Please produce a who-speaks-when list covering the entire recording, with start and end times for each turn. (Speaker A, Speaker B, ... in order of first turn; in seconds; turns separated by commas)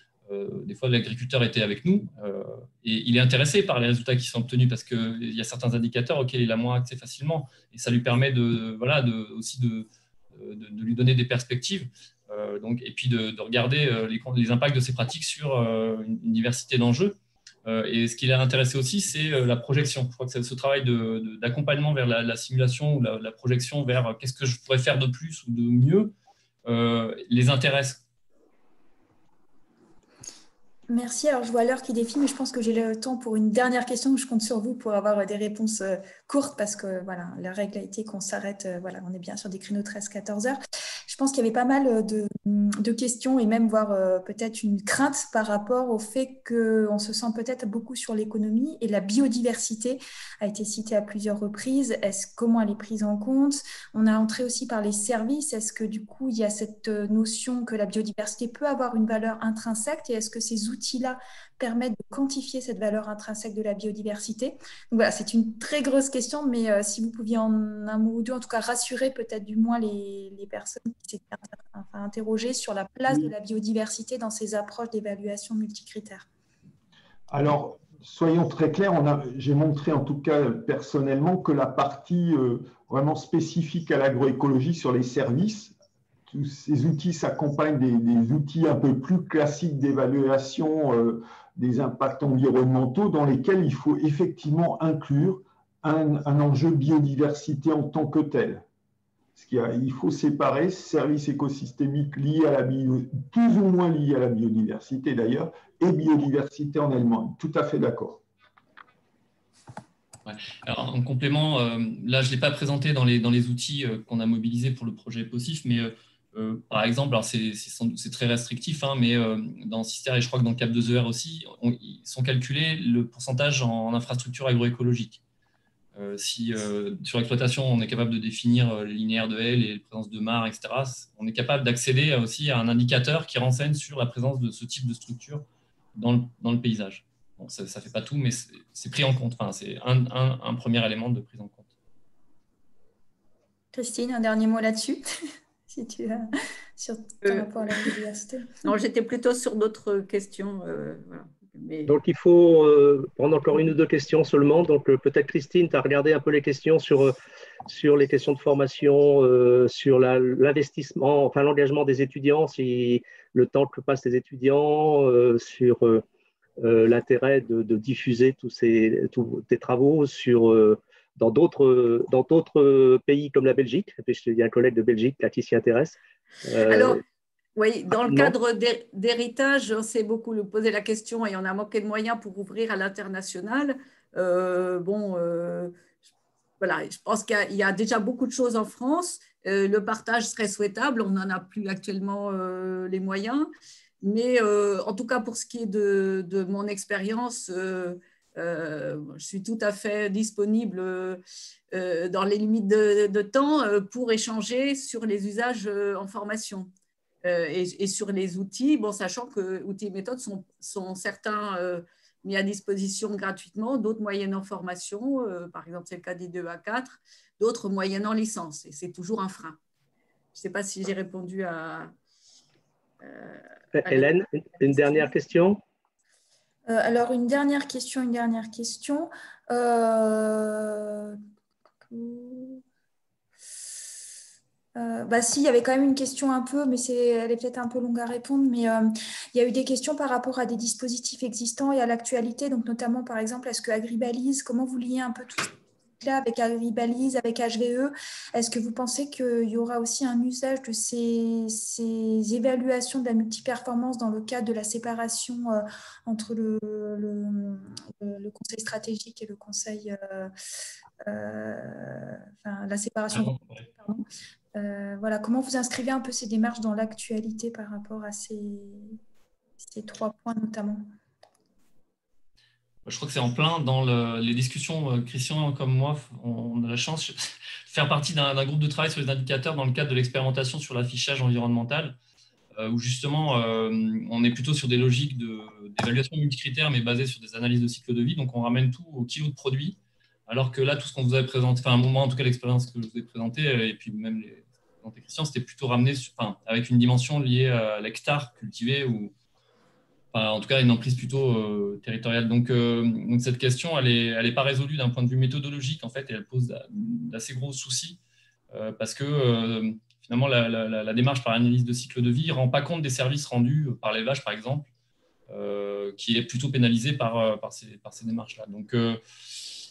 Speaker A: 0.3-26.1, Speaker A: 26.6-28.0, Speaker B: 30.9-76.3, Speaker C: 77.3-85.7, Speaker C: 86.3-98.6, Speaker C: 99.3-108.2, Speaker A: 110.2-125.2, Speaker A: 125.9-141.7, Speaker B: 143.7-145.0, Speaker B: 145.7-148.6, Speaker D: 147.2-147.9, Speaker D: 148.6-151.9, Speaker E: 151.9-157.1, Speaker E: 157.7-166.0, Speaker E: 166.6-177.0, Speaker D: 176.7-177.0, Speaker D: 177.6-185.8, Speaker E: 178.0-178.3, Speaker D: 186.6-193.5, Speaker D: 194.0-201.2, Speaker D: 201.7-206.7, Speaker D: 207.2-219.6, Speaker D: 220.3-221.9, Speaker D: 223.0-224.1, Speaker E: 223.7-225.6, Speaker D: 224.7-225.1, Speaker B: 226.7-231.2, Speaker B: 231.9-232.6, Speaker B: 234.8-260.3, Speaker B: 261.0-264.0, Speaker B: 264.5-269.0, Speaker B: 269.6-270.9, Speaker A: 272.8-281.9, Speaker A: 282.6-299.1, Speaker A: 300.1-308.0, Speaker A: 308.5-314.7, Speaker A: 315.3-319.0